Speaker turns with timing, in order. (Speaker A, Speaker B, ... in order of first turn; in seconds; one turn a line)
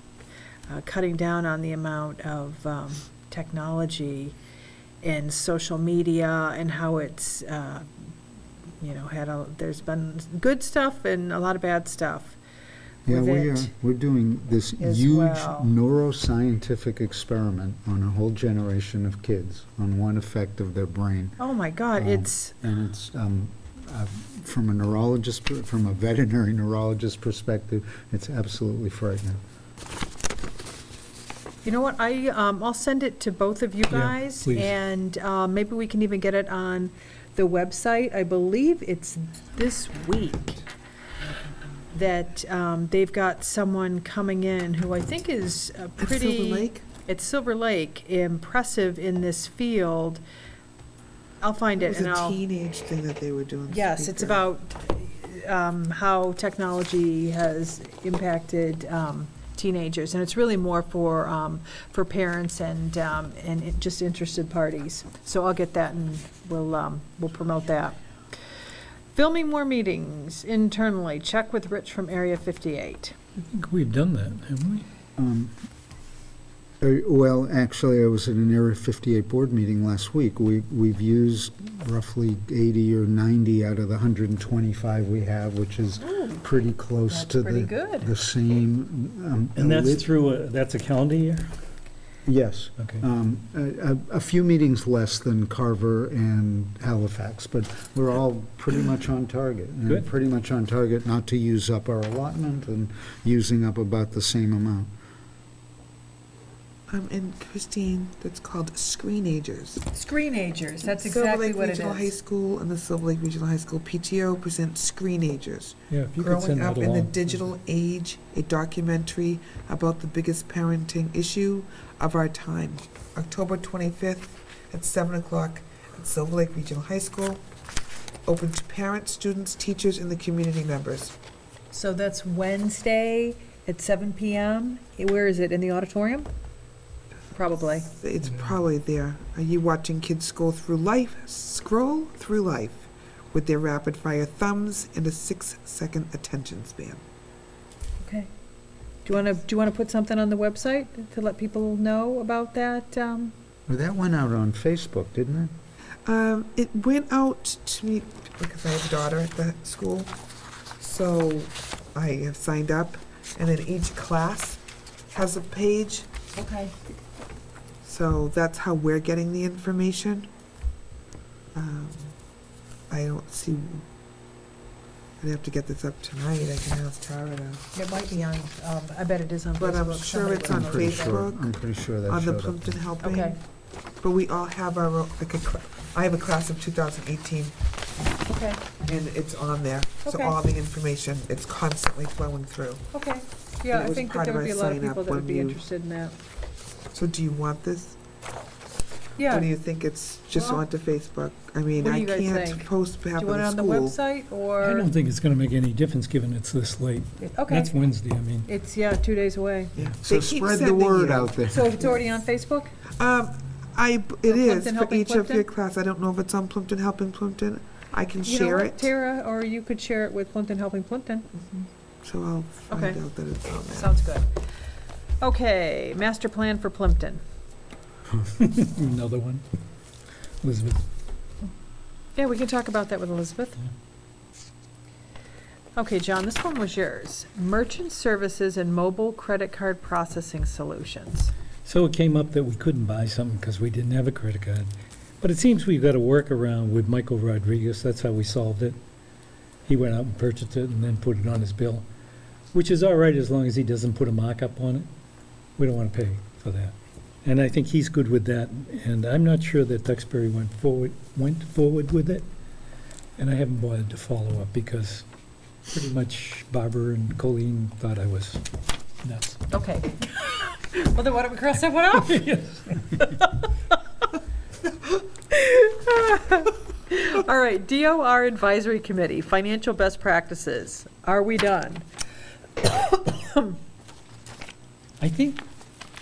Speaker A: 0.7-4.4
Speaker A: 5.0-8.1
Speaker A: 8.8-12.4
Speaker B: 13.1-21.4
Speaker A: 13.1-13.7
Speaker A: 14.8-15.7
Speaker A: 21.4-22.5
Speaker B: 21.9-29.4
Speaker A: 31.6-40.6
Speaker C: 33.9-34.7
Speaker A: 41.9-50.2
Speaker D: 46.0-46.9
Speaker A: 51.4-52.4
Speaker D: 51.8-54.5
Speaker A: 53.7-68.0
Speaker A: 69.1-73.2
Speaker C: 73.4-74.8
Speaker B: 75.2-75.5
Speaker B: 76.8-90.1
Speaker A: 86.0-86.4
Speaker A: 87.1-88.1
Speaker C: 89.6-91.5
Speaker B: 92.3-104.9
Speaker D: 106.9-109.9
Speaker A: 109.9-112.1
Speaker D: 110.8-127.4
Speaker C: 115.9-117.5
Speaker D: 128.3-131.2
Speaker A: 131.7-136.3
Speaker A: 137.3-137.9
Speaker D: 137.9-147.0
Speaker A: 148.0-148.3
Speaker A: 149.1-153.3
Speaker B: 153.7-155.5
Speaker D: 156.1-160.1
Speaker D: 160.8-166.1
Speaker A: 166.3-166.7
Speaker D: 167.8-170.3
Speaker D: 171.5-172.2
Speaker D: 172.9-173.8
Speaker D: 175.2-177.7
Speaker A: 177.7-181.2
Speaker D: 179.6-181.5
Speaker B: 180.5-182.8
Speaker D: 182.1-183.4
Speaker A: 183.0-183.4
Speaker D: 184.0-187.6
Speaker A: 188.3-188.6
Speaker D: 188.8-192.9
Speaker A: 190.1-190.4
Speaker A: 192.9-196.2
Speaker D: 193.7-195.6
Speaker D: 196.9-198.0
Speaker A: 199.2-199.5
Speaker D: 199.3-204.0
Speaker A: 200.3-200.6
Speaker A: 201.8-204.9
Speaker C: 204.6-208.5
Speaker A: 207.2-207.8
Speaker A: 208.4-209.7
Speaker D: 209.8-211.4
Speaker B: 210.0-211.7
Speaker A: 211.5-212.7
Speaker D: 213.0-218.9
Speaker A: 214.3-215.5
Speaker A: 218.2-221.4
Speaker D: 221.6-224.0
Speaker A: 222.7-223.0
Speaker A: 223.7-224.3
Speaker A: 225.2-227.2
Speaker C: 228.1-229.4
Speaker C: 230.4-230.8
Speaker A: 232.2-233.6
Speaker A: 235.8-241.3
Speaker C: 241.7-248.8
Speaker C: 249.7-251.9
Speaker C: 252.5-254.9
Speaker C: 255.6-262.3
Speaker C: 263.2-265.1
Speaker C: 265.7-268.4
Speaker C: 269.0-269.4
Speaker A: 269.5-273.5
Speaker A: 275.3-281.9
Speaker A: 282.6-283.6
Speaker C: 285.0-285.4